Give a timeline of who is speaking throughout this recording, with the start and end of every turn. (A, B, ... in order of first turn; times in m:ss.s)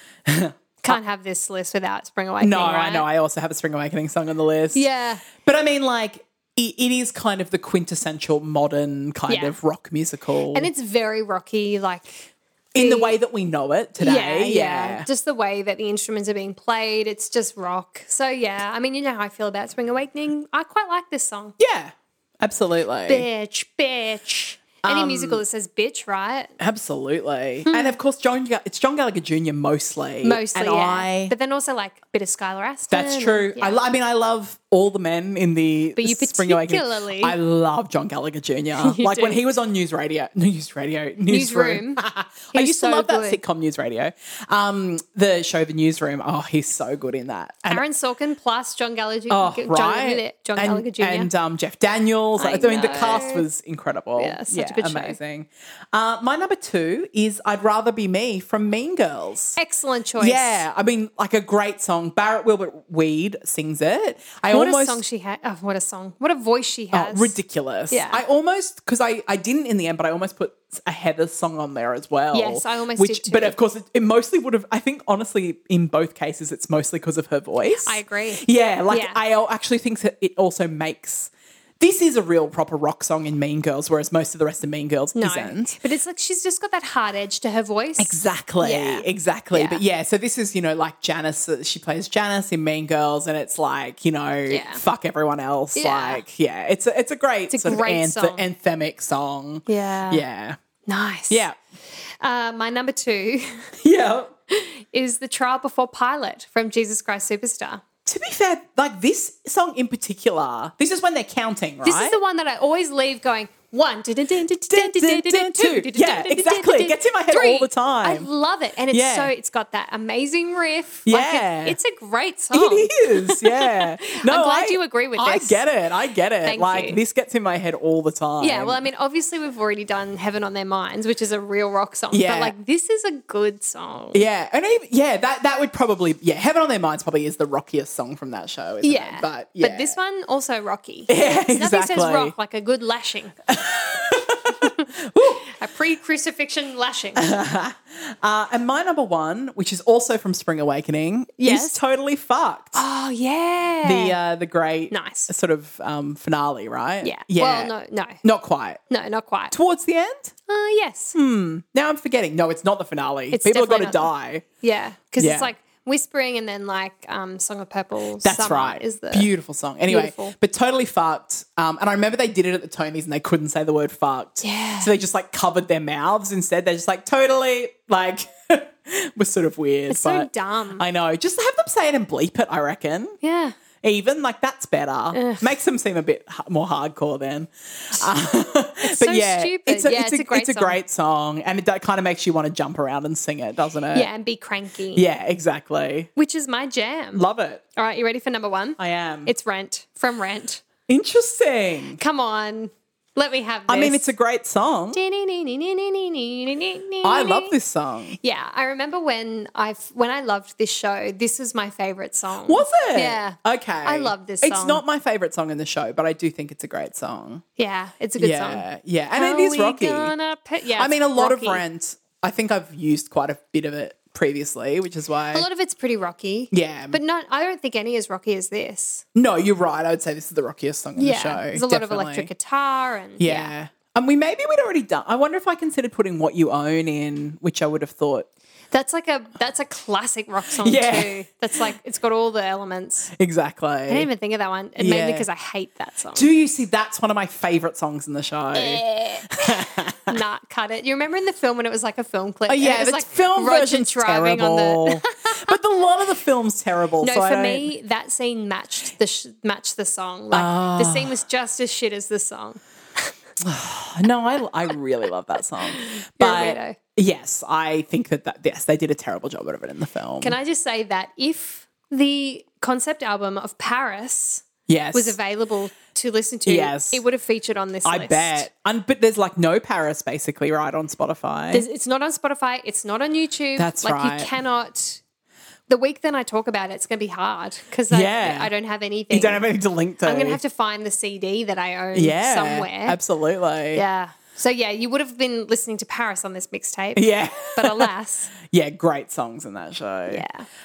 0:00.3-0:01.0 A
0:00.8-0:03.1 B
0:02.4-0:10.7 A
0:04.7-0:05.2 B
0:09.3-0:09.6 B
0:10.5-0:13.2 B
0:12.7-0:15.1 A
0:14.0-0:21.6 B
0:21.6-0:23.3 A
0:23.1-0:26.5 B
0:24.8-0:25.4 A
0:26.6-0:31.3 A
0:27.6-0:28.0 B
0:30.2-0:33.8 B
0:32.9-0:47.8 A
0:36.0-0:37.4 B
0:38.8-0:39.4 B
0:41.3-0:43.4 B
0:47.7-0:51.3 B
0:49.3-0:59.6 A
0:52.4-0:53.5 B
0:54.2-0:55.2 B
0:59.6-1:00.6 B
1:00.2-1:05.0 A
1:04.5-1:07.4 B
1:06.9-1:25.8 A
1:07.9-1:08.2 B
1:12.3-1:13.6 B
1:17.6-1:19.2 B
1:25.2-1:29.8 B
1:28.0-1:40.6 A
1:34.5-1:34.8 B
1:35.8-1:36.2 B
1:37.5-1:38.5 B
1:39.7-1:40.2 B
1:40.9-1:41.4 B
1:41.3-1:41.6 A
1:42.2-1:43.7 B
1:43.8-1:44.3 A
1:44.5-1:47.8 B
1:48.1-1:52.2 A
1:51.8-2:05.7 B
1:54.7-1:58.3 A
1:58.9-1:59.3 A
2:01.1-2:01.8 A
2:02.5-2:08.8 A
2:06.4-2:07.0 B
2:08.4-2:14.2 B
2:12.1-2:12.5 A
2:14.1-2:20.0 A
2:18.8-2:23.4 B
2:21.1-2:22.3 A
2:23.5-2:25.5 A
2:24.6-2:27.3 B
2:27.2-2:32.8 A
2:31.4-2:31.8 B
2:32.8-2:34.2 B
2:33.8-2:38.8 A
2:34.9-2:35.3 B
2:37.0-2:38.2 B
2:38.9-2:39.6 B
2:39.5-2:40.3 A
2:40.5-2:41.2 B
2:41.2-2:44.4 A
2:43.3-2:49.3 B
2:45.2-2:45.5 A
2:48.2-3:03.2 A
2:49.9-2:50.4 B
2:54.4-2:54.9 B
2:59.9-3:00.8 B
3:03.2-3:03.6 B
3:03.8-3:14.1 A
3:05.1-3:05.6 B
3:08.8-3:10.8 B
3:13.9-3:15.1 B
3:15.0-3:16.1 A
3:16.2-3:20.6 B
3:17.2-3:17.6 A
3:18.8-3:19.3 A
3:20.9-3:22.0 A
3:22.0-3:24.0 B
3:23.7-3:25.0 A
3:24.9-3:27.6 B
3:27.0-3:28.2 A
3:28.2-3:34.8 B
3:32.5-3:37.4 A
3:37.6-3:41.6 B
3:38.2-3:40.1 A
3:40.8-3:45.5 A
3:45.3-3:49.0 B
3:46.5-3:47.0 A
3:49.2-3:52.3 A
3:51.0-3:53.5 B
3:53.2-3:58.3 A
3:58.7-4:03.1 B
4:00.6-4:01.2 A
4:03.2-4:04.1 A
4:03.9-4:06.3 B
4:04.8-4:05.3 A
4:06.1-4:10.2 A
4:08.5-4:15.6 B
4:12.5-4:17.7 A
4:17.0-4:23.1 B
4:20.3-4:21.2 A
4:23.4-4:30.4 A
4:25.5-4:26.8 B
4:30.2-4:38.5 B
4:34.7-4:35.2 A
4:36.5-4:37.0 A
4:37.8-4:41.6 A
4:41.5-4:45.0 B
4:43.6-4:44.3 A
4:45.7-4:49.5 B
4:47.9-4:48.5 A
4:49.1-4:50.4 A
4:50.0-4:53.0 B
4:51.9-4:53.8 A
4:53.7-4:58.3 B
4:57.0-4:57.9 A
4:58.4-5:00.2 A
5:00.1-5:00.5 B